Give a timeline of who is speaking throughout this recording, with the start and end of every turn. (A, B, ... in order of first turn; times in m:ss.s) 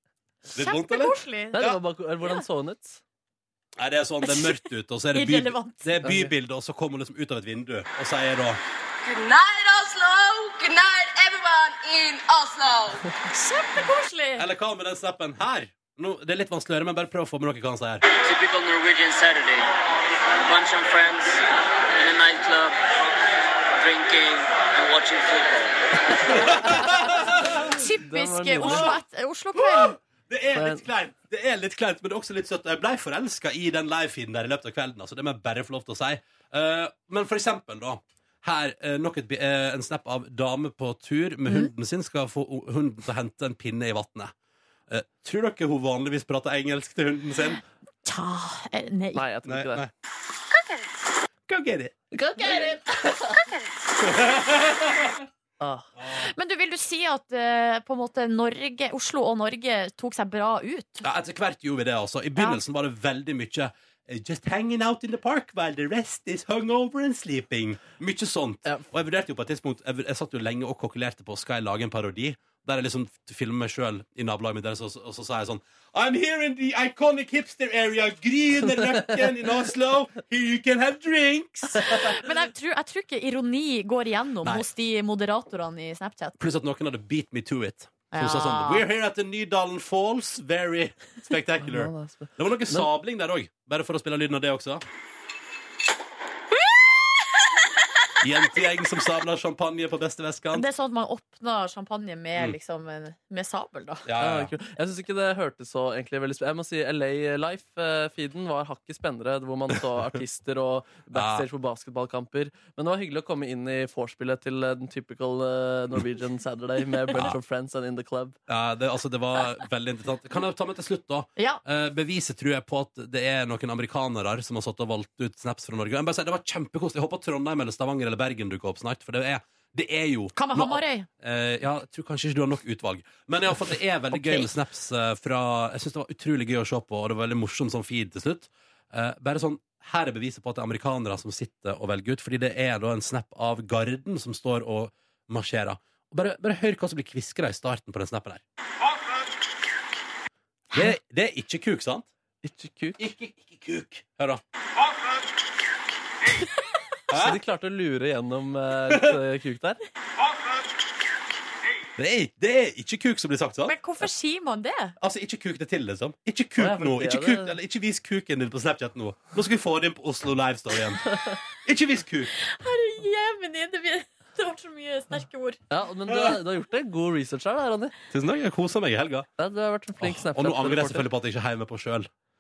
0:00.6-0:01.8 A
0:00.6-0:01.6 B
0:01.5-0:03.0 C
0:03.8-0:08.6 A
0:04.2-0:04.6 B
0:05.1-0:05.9 B
0:06.0-0:06.3 C
0:09.0-0:13.0 D
0:13.3-0:14.4 B
0:14.4-0:18.0 A
0:18.2-0:19.7 E
0:20.4-0:21.4 E
0:22.0-0:22.8 E
0:23.8-0:25.8 E
0:26.3-0:27.6 A
0:26.4-0:26.9 C
0:27.7-0:30.0 B
0:28.0-0:29.0 C
0:28.6-0:28.9 A
0:29.6-0:44.3 A
0:30.6-0:30.8 C
0:44.9-0:47.6 A
0:48.0-0:49.2 B
0:49.2-0:49.8 C
0:49.5-0:49.9 A
0:51.5-0:52.0 A
0:52.1-0:53.1 C
0:54.0-0:55.1 A
0:55.6-0:55.9 C
0:56.0-0:56.3 A
0:56.1-1:01.1 B
1:01.0-1:22.2 A
1:21.8-1:26.4 B
1:26.4-1:34.8 A
1:28.1-1:28.8 B
1:31.6-1:32.9 C
1:38.2-1:40.6 A
1:40.5-1:44.0 B
1:44.1-1:44.5 A
1:44.2-1:58.4 C
1:51.1-1:51.5 A
1:58.5-2:28.4 A
2:10.4-2:11.1 B
2:14.1-2:14.5 B
2:30.7-2:32.1 A
2:32.4-2:33.0 C
2:33.0-2:34.4 A
2:37.1-2:37.4 A
2:37.1-2:39.8 C
2:38.9-2:39.2 A
2:42.0-2:43.8 A
2:43.7-2:45.0 B
2:45.0-2:51.1 A
2:46.6-2:47.6 C
2:51.1-2:51.4 C
2:51.6-2:52.3 A
2:52.4-2:55.6 B
2:55.7-2:57.9 C
2:58.1-2:59.3 A
2:59.4-3:01.1 C
3:00.0-3:02.1 A